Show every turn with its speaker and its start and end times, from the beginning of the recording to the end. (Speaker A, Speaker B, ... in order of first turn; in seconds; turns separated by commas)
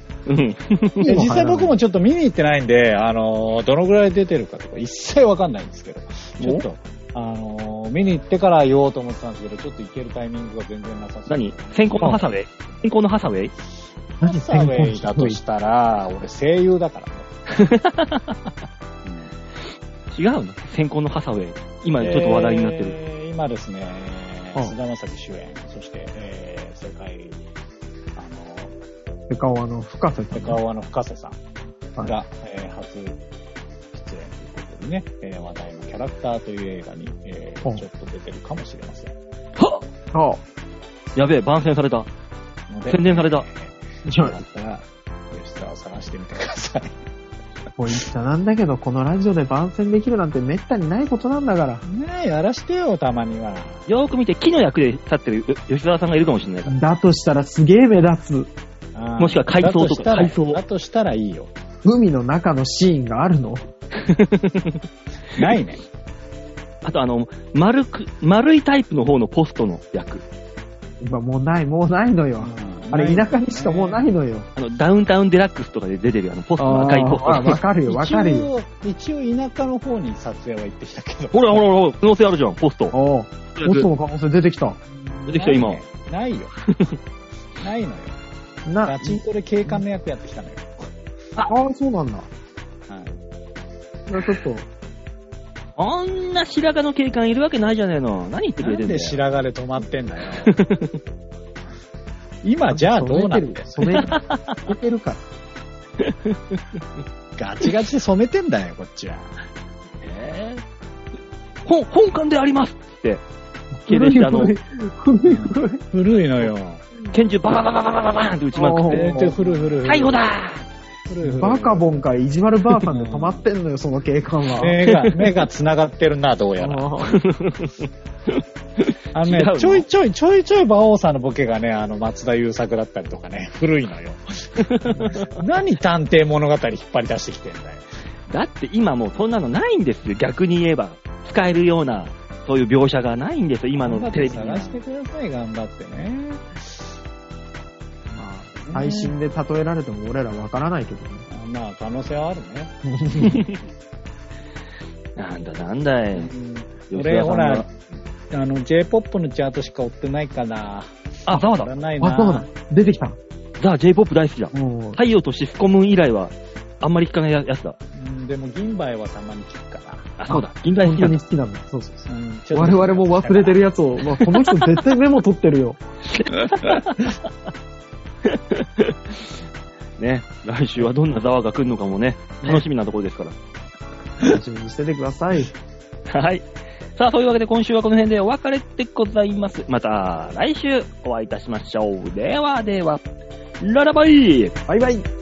Speaker A: 0.3-1.3, Speaker B: 1.1-1.8, Speaker C: 1.1-12.3, Speaker A: 6.4-6.7, Speaker A: 11.3-13.5, Speaker C: 14.2-17.3, Speaker B: 14.2-15.4, Speaker A: 17.5-18.4, Speaker C: 19.0-19.3, Speaker A: 20.1-23.0, Speaker C: 22.0-27.4, Speaker C: 28.2-28.7, Speaker B: 29.3-30.6, Speaker C: 30.3-31.4, Speaker C: 32.0-33.2, Speaker C: 33.9-39.1, Speaker A: 39.6-39.8, Speaker B: 40.1-40.4, Speaker A: 41.2-42.1, Speaker C: 42.7-47.0, Speaker A: 42.9-43.5, Speaker B: 44.0-44.4, Speaker B: 47.8-51.8, Speaker C: 51.8-53.9, Speaker A: 53.9-56.8, Speaker B: 56.7-58.5, Speaker C: 59.0-61.5, Speaker A: 59.2-60.6, Speaker B: 61.8-63.7, Speaker A: 63.9-64.8, Speaker C: 65.3-65.8, Speaker A: 66.8-70.2, Speaker B: 71.0-74.5, Speaker C: 72.4-74.1, Speaker A: 74.6-77.6, Speaker B: 76.6-78.5, Speaker C: 77.9-81.7, Speaker A: 81.3-83.0, Speaker B: 82.9-84.8, Speaker A: 83.6-83.9, Speaker C: 84.9-86.5, Speaker A: 85.3-85.8, Speaker A: 86.7-87.0, Speaker C: 87.6-88.2, Speaker B: 88.7-89.8, Speaker C: 88.9-90.9, Speaker B: 91.5-92.3, Speaker C: 92.9-93.2, Speaker B: 94.1-94.7, Speaker A: 95.8-99.2, Speaker C: 98.6-100.6, Speaker A: 100.5-101.0, Speaker C: 102.4-104.1, Speaker B: 102.7-105.2, Speaker A: 104.0-104.7, Speaker A: 106.0-106.8, Speaker C: 107.4-109.4, Speaker A: 110.0-110.6, Speaker A: 111.7-113.2, Speaker B: 113.8-115.8, Speaker A: 113.9-114.5, Speaker C: 115.2-116.8, Speaker A: 117.1-119.2, Speaker B: 118.5-119.4, Speaker C: 118.9-120.3, Speaker A: 119.9-120.6, Speaker C: 121.1-122.0, Speaker B: 121.2-124.8, Speaker C: 122.9-123.5, Speaker C: 124.6-126.9, Speaker A: 124.9-125.3, Speaker B: 126.6-127.2, Speaker A: 127.0-129.9, Speaker C: 129.1-137.9, Speaker A: 134.6-135.3, Speaker A: 138.3-144.8, Speaker C: 143.8-146.9, Speaker B: 148.2-151.2, Speaker C: 148.5-149.2, Speaker C: 151.3-152.7, Speaker B: 152.8-153.4, Speaker A: 153.2-153.6, Speaker A: 155.2-156.3, Speaker C: 156.1-157.7, Speaker A: 156.9-157.7, Speaker C: 158.3-162.5, Speaker A: 161.3-161.7, Speaker B: 162.0-163.2, Speaker A: 163.6-167.8, Speaker B: 164.5-165.0, Speaker C: 167.9-170.2, Speaker A: 170.2-171.2, Speaker B: 170.3-175.8, Speaker C: 172.1-173.6, Speaker A: 174.5-174.8, Speaker A: 176.1-177.0, Speaker A: 178.2-179.3, Speaker A: 180.0-183.3, Speaker B: 184.2-185.5, Speaker A: 186.1-193.0, Speaker A: 193.6-194.6, Speaker B: 194.7-195.0